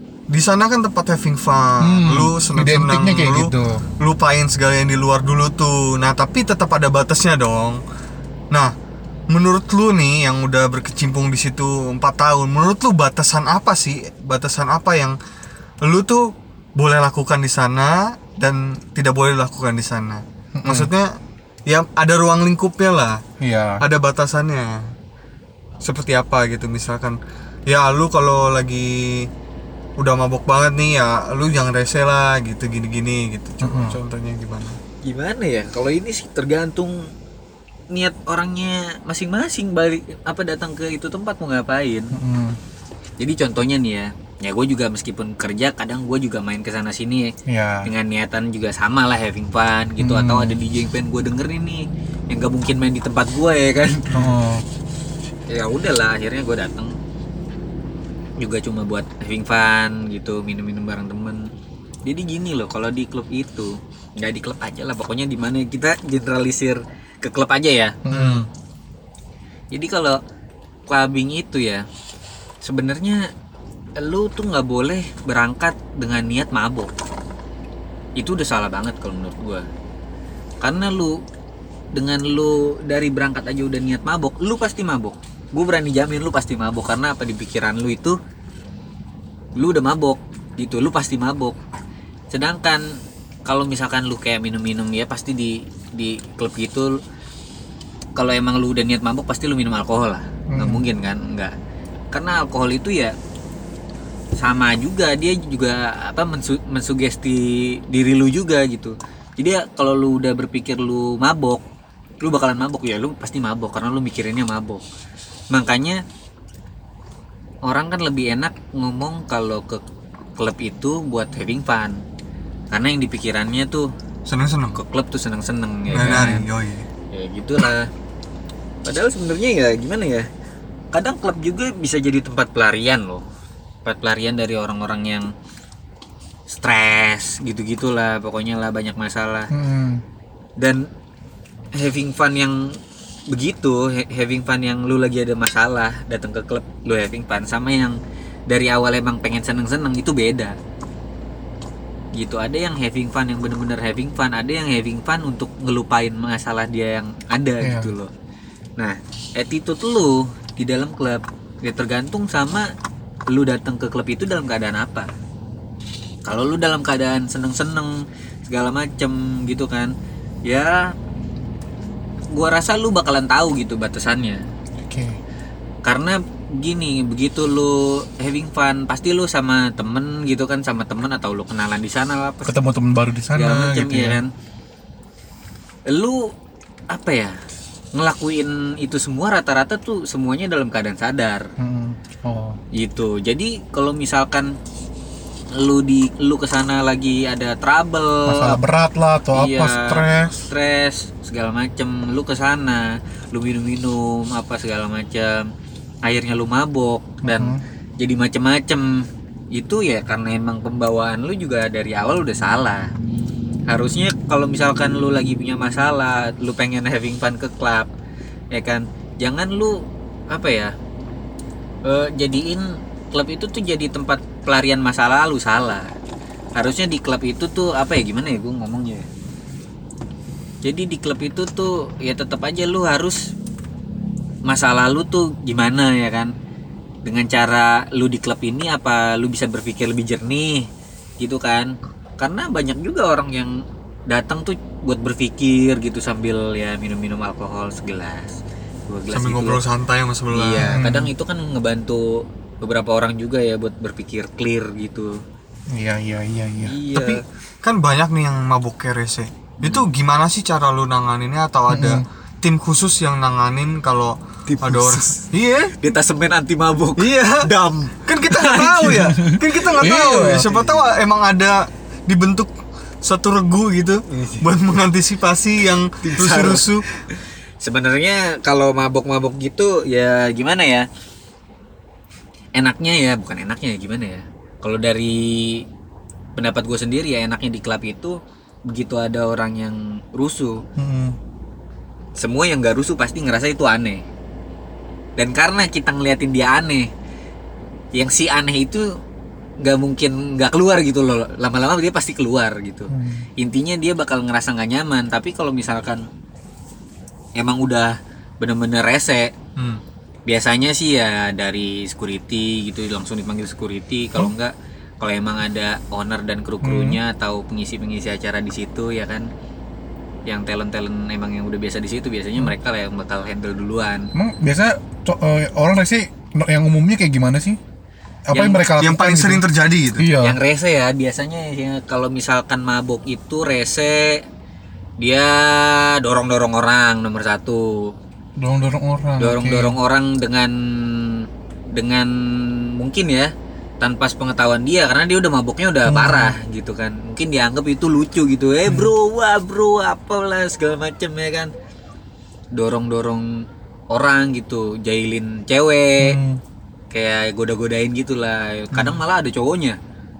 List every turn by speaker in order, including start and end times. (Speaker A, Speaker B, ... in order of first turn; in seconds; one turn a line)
Speaker A: 0.3-7.8
Speaker B: 1.8-3.8
Speaker A: 9.3-15.2
Speaker A: 15.8-23.2
Speaker B: 20.6-20.9
Speaker B: 23.4-23.8
Speaker A: 23.8-24.9
Speaker A: 25.8-29.3
Speaker A: 30.0-34.8
Speaker B: 33.6-34.0
Speaker C: 35.0-37.1
Speaker C: 37.9-42.1
Speaker B: 42.1-42.6
Speaker C: 43.2-54.1
Speaker B: 47.5-47.9
Speaker B: 50.0-50.6
Speaker B: 54.1-54.6
Speaker C: 55.5-57.0
Speaker C: 58.4-61.5
Speaker C: 62.0-68.0
Speaker B: 68.0-68.5
Speaker A: 68.1-68.5
Speaker C: 69.7-70.2
Speaker C: 70.9-71.8
Speaker C: 72.6-73.3
Speaker C: 74.0-76.9
Speaker C: 78.2-79.7
Speaker C: 80.6-81.2
Speaker C: 81.9-88.2
Speaker C: 89.6-91.5
Speaker C: 92.3-97.0
Speaker C: 98.2-101.5
Speaker B: 100.5-100.8
Speaker C: 102.1-103.1
Speaker C: 104.4-111.6
Speaker C: 112.2-114.8
Speaker C: 115.5-116.0
Speaker C: 117.6-119.8
Speaker C: 120.4-122.0
Speaker C: 122.7-123.9
Speaker A: 124.2-124.8
Speaker C: 124.7-126.4
Speaker A: 125.9-126.9
Speaker B: 126.0-126.4
Speaker C: 127.1-127.9
Speaker C: 128.8-130.3
Speaker C: 130.9-133.2
Speaker C: 133.8-135.3
Speaker C: 136.5-139.5
Speaker B: 139.5-140.0
Speaker C: 140.6-140.9
Speaker C: 141.7-142.8
Speaker C: 143.3-150.6
Speaker C: 152.1-158.1
Speaker B: 157.6-157.9
Speaker C: 158.8-162.7
Speaker C: 163.3-165.1
Speaker C: 166.2-169.9
Speaker C: 170.4-170.9
Speaker C: 172.3-174.4
Speaker B: 174.8-175.2
Speaker C: 175.8-182.6
Speaker B: 182.4-184.2
Speaker C: 183.3-184.3
Speaker C: 185.9-186.3
Speaker C: 186.9-187.3
Speaker C: 187.9-191.5
Speaker B: 191.6-192.6
Speaker C: 192.7-194.6
Speaker C: 195.5-198.6
Speaker B: 198.2-200.5
Speaker C: 199.3-205.5
Speaker C: 206.0-212.9
Speaker B: 207.2-207.6
Speaker C: 213.7-217.9
Speaker C: 218.5-220.7
Speaker C: 221.8-225.9
Speaker C: 226.6-229.1
Speaker C: 230.6-233.3
Speaker C: 234.5-236.3
Speaker C: 237.0-240.7
Speaker C: 241.2-249.6
Speaker A: 249.1-250.8
Speaker C: 250.3-255.2
Speaker B: 250.6-251.1
Speaker B: 255.7-256.8
Speaker C: 256.6-257.2
Speaker A: 256.9-265.8
Speaker B: 261.7-262.0
Speaker C: 264.5-265.3
Speaker C: 265.8-269.0
Speaker A: 267.0-267.5
Speaker A: 268.0-272.5
Speaker B: 268.8-270.5
Speaker C: 270.2-270.9
Speaker A: 273.0-276.8
Speaker C: 274.1-274.5
Speaker C: 276.0-276.8
Speaker C: 277.6-280.9
Speaker C: 282.6-285.6
Speaker C: 286.4-290.6
Speaker B: 290.8-291.2
Speaker C: 292.2-294.0
Speaker C: 295.2-296.9
Speaker C: 297.9-298.9
Speaker C: 299.6-306.0
Speaker B: 302.9-303.3
Speaker C: 307.4-309.3
Speaker A: 309.6-309.8
Speaker C: 310.3-319.3
Speaker B: 316.6-317.0
Speaker C: 320.2-324.1
Speaker B: 324.1-327.6
Speaker B: 328.3-329.4
Speaker C: 328.3-328.6
Speaker A: 328.8-330.1
Speaker B: 330.0-330.4
Speaker C: 330.2-334.2
Speaker C: 335.0-337.9
Speaker B: 338.4-339.8
Speaker C: 339.2-351.5
Speaker B: 345.9-346.3
Speaker C: 352.5-356.2
Speaker B: 356.0-356.4
Speaker C: 356.9-359.8